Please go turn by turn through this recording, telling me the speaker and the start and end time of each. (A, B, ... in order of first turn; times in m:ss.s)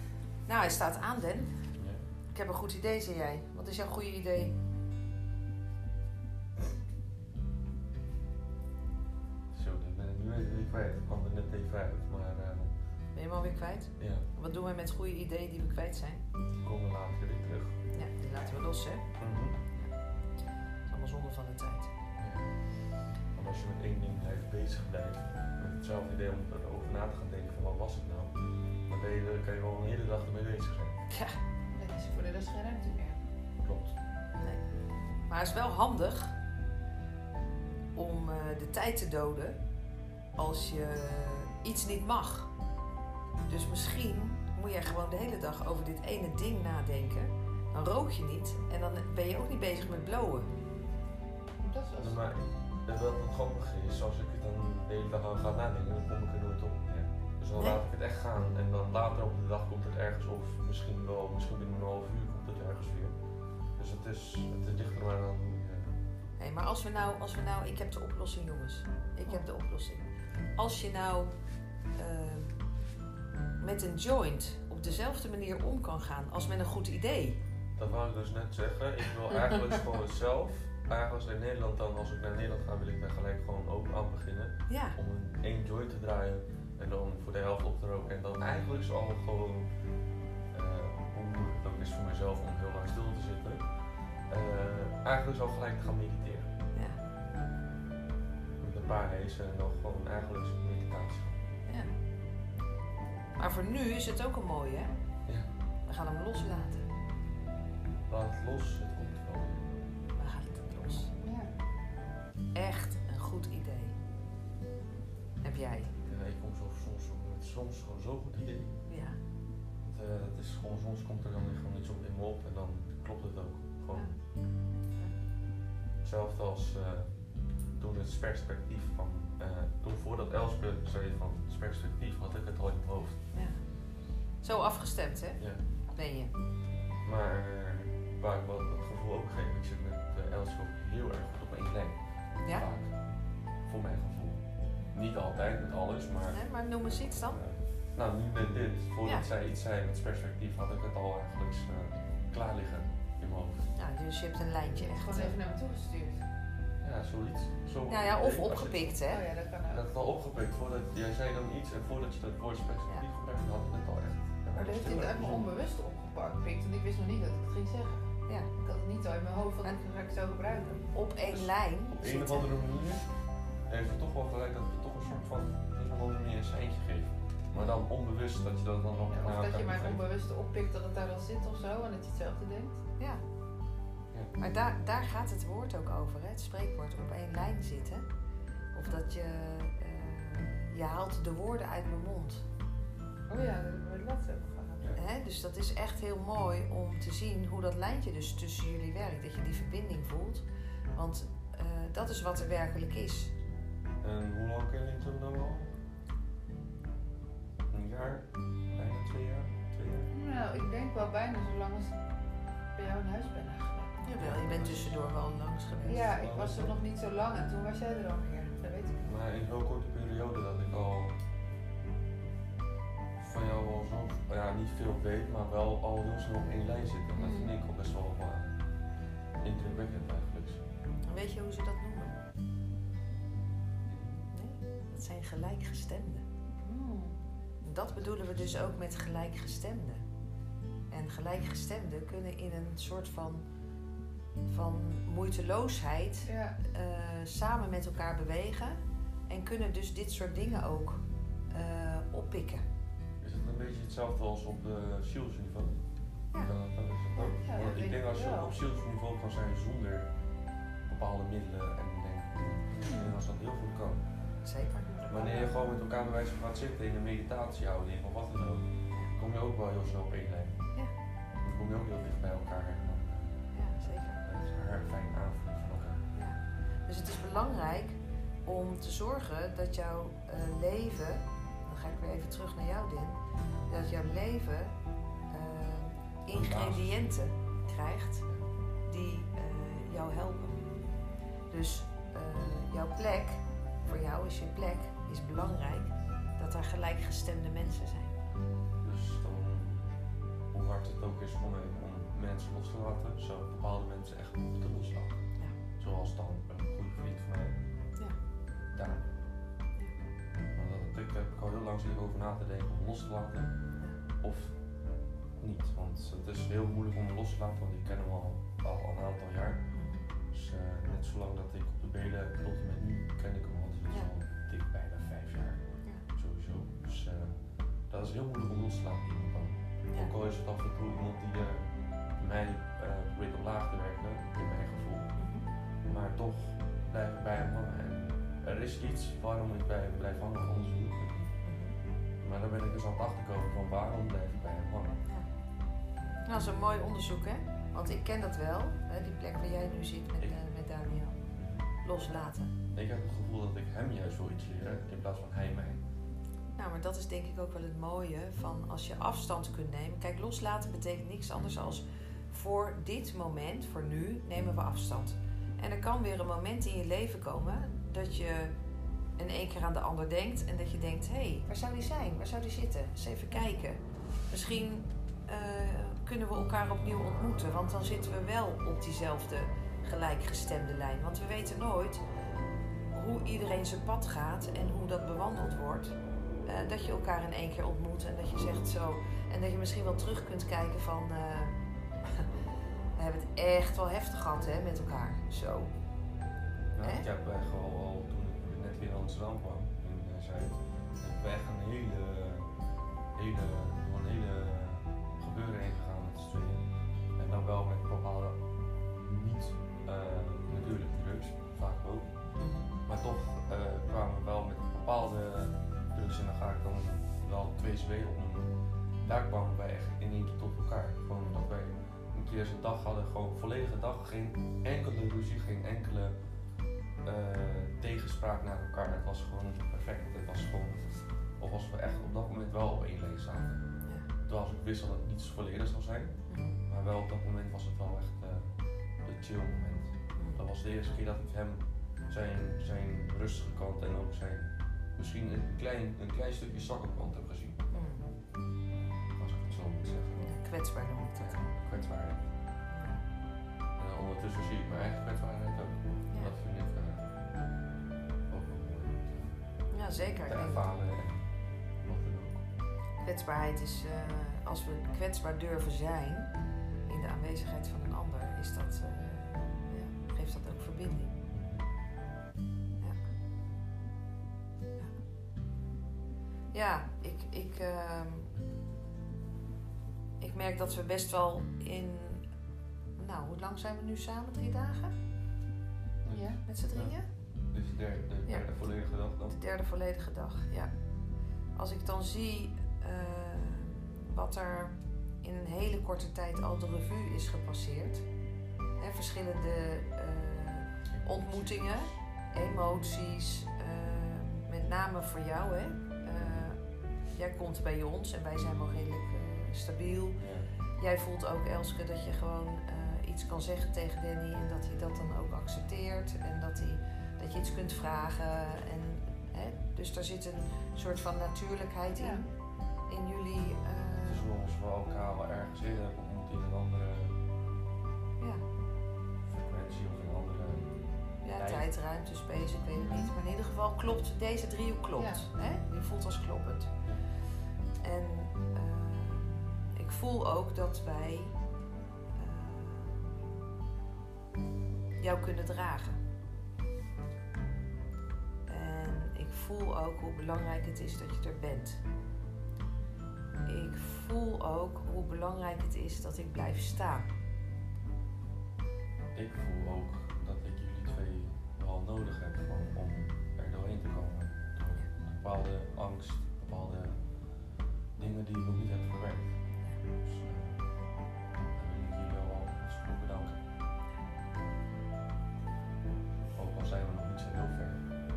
0:00.4-0:01.5 A
0:01.8-0:02.0 B
0:02.3-0:04.6 A
0:09.5-0:12.7 B
0:13.1-0:16.2 A
0:14.0-0:14.3 B
0:16.6-0:17.8 B
0:17.9-0:19.1 A
0:19.2-0:19.6 B
0:20.9-0:21.9 A
0:22.2-0:22.6 B
0:23.3-0:31.0 B
0:31.1-0:31.4 A
0:31.7-0:33.2 C
0:33.6-0:33.9 B
0:35.3-0:36.4 A
0:37.9-0:39.6 A
0:40.4-0:42.5 A
0:43.5-0:50.5 A
0:51.6-0:52.2 C
0:52.0-1:03.2 B
1:03.8-1:05.9 B
1:06.4-1:11.3 A
1:12.0-1:12.6 A
1:13.6-1:17.4 A
1:17.8-1:29.7 B
1:24.7-1:25.0 A
1:30.5-1:33.6 B
1:34.3-1:36.5 B
1:36.7-1:37.0 A
1:38.6-1:41.4 B
1:41.6-1:41.9 A
1:43.4-1:44.9 A
1:45.9-1:46.9 A
1:48.1-1:49.6 B
1:50.2-1:51.1 A
1:51.2-1:51.5 C
1:52.5-1:54.0 A
1:55.4-1:55.9 A
1:56.0-1:58.7 B
1:58.9-1:59.2 A
1:59.8-2:04.1 B
2:06.0-2:07.1 B
2:07.8-2:13.2 B
2:13.3-2:13.6 A
2:14.4-2:16.3 A
2:15.4-2:15.6 B
2:17.0-2:23.0 B
2:23.7-2:33.7 B
2:26.3-2:27.4 A
2:33.8-2:35.3 A
2:34.8-2:36.2 C
2:36.8-2:39.0 B
2:37.9-2:39.2 A
2:39.0-2:39.8 C
2:39.7-2:45.5 B
2:44.5-2:50.8 C
2:50.9-2:52.5 A
2:51.3-2:53.1 B
2:53.7-3:00.0 B
2:59.1-3:02.8 C
3:04.4-3:08.0 A
3:08.7-3:12.4 A
3:13.3-3:14.9 C
3:15.0-3:20.4 A
3:20.9-3:23.3 A
3:24.0-3:25.7 B
3:27.7-3:30.1 B
3:30.1-3:32.0 C
3:32.8-3:34.0 C
3:34.0-3:36.1 A
3:34.2-3:35.2 B
3:35.8-3:39.1 C
3:36.1-3:36.8 B
3:39.0-3:41.1 B
3:43.2-3:48.5 B
3:47.2-3:47.5 C
3:49.4-3:50.6 B
3:51.1-3:52.2 A
3:53.7-3:54.3 B
3:54.3-3:56.2 A
3:56.6-3:57.2 C
3:57.6-4:00.0 A
3:58.0-3:58.7 B
4:00.9-4:03.4 A
4:04.5-4:11.0 A
4:06.2-4:06.6 C
4:11.5-4:12.6 A
4:13.2-4:15.8 B
4:16.3-4:20.1 B
4:17.1-4:18.6 C
4:20.8-4:24.0 B
4:24.4-4:25.5 A
4:25.1-4:30.6 B
4:31.4-4:33.4 B
4:33.5-4:34.2 A
4:34.1-4:36.1 B
4:36.1-4:44.7 A
4:45.3-4:48.2 A
4:46.3-4:47.1 B
4:48.8-4:50.6 A
4:51.5-4:58.1 A
4:58.8-5:00.0 B
5:00.5-5:05.2 B
5:05.8-5:07.6 B
5:08.7-5:09.0 B
5:10.5-5:13.5 B
5:14.2-5:14.6 B
5:15.4-5:19.7 B
5:19.7-5:20.0 A
5:20.3-5:25.6 B
5:26.1-5:27.3 B
5:27.9-5:31.7 B
5:29.9-5:30.1 A
5:32.2-5:35.2 B
5:35.2-5:35.4 A
5:35.8-5:41.3 B
5:41.4-5:41.8 A
5:42.2-5:45.0 B
5:46.2-5:51.2 A
5:51.4-5:51.6 B
5:51.8-5:52.5 A
5:52.7-5:55.8 B
5:56.6-6:08.5 A
6:09.2-6:22.0 A
6:22.9-6:32.3 A
6:33.0-6:35.7 A
6:36.8-6:42.5 B
6:36.8-6:37.1 A
6:43.2-6:46.6 B
6:47.2-6:48.4 B
6:48.9-6:52.1 B
6:52.4-6:52.7 A
6:52.9-6:58.5 B
6:59.0-7:06.2 B
7:07.0-7:13.6 B
7:14.2-7:27.6 B
7:16.3-7:16.6 A
7:20.2-7:20.4 A
7:27.7-7:28.1 A
7:29.2-7:30.3 B
7:30.2-7:31.4 A
7:31.2-7:32.2 B
7:32.7-7:33.0 A
7:33.8-7:37.0 B
7:38.3-7:39.4 B
7:39.7-7:40.7 A
7:40.2-7:41.3 B
7:41.8-7:42.4 B
7:43.0-7:46.3 A
7:46.9-7:51.1 A
7:51.3-7:51.6 B
7:56.5-7:58.4 A
8:00.2-8:02.2 A
8:03.0-8:04.9 A
8:06.0-8:07.0 B
8:06.1-8:06.4 C
8:06.4-8:07.1 A
8:07.5-8:09.4 B
8:08.2-8:08.7 A
8:09.2-8:10.7 A
8:11.5-8:18.0 A
8:18.8-8:26.6 A
8:20.9-8:22.0 B
8:26.2-8:26.5 B
8:27.1-8:30.2 A
8:30.2-8:30.5 B
8:30.7-8:42.2 A
8:41.9-8:42.3 C
8:42.9-8:44.2 A
8:44.0-8:47.2 B
8:48.2-8:48.4 A
8:49.2-8:50.7 B
8:51.2-8:56.7 A
8:51.3-8:51.7 B
8:52.8-8:53.1 C
8:55.0-8:55.2 C
8:57.8-9:01.4 A
9:02.1-9:03.3 A
9:05.0-9:06.0 A
9:08.5-9:11.8 A
9:13.4-9:17.1 A
9:19.1-9:27.0 B
9:28.0-9:29.4 B
9:30.0-9:30.6 B
9:31.6-9:33.4 B
9:36.3-9:37.8 B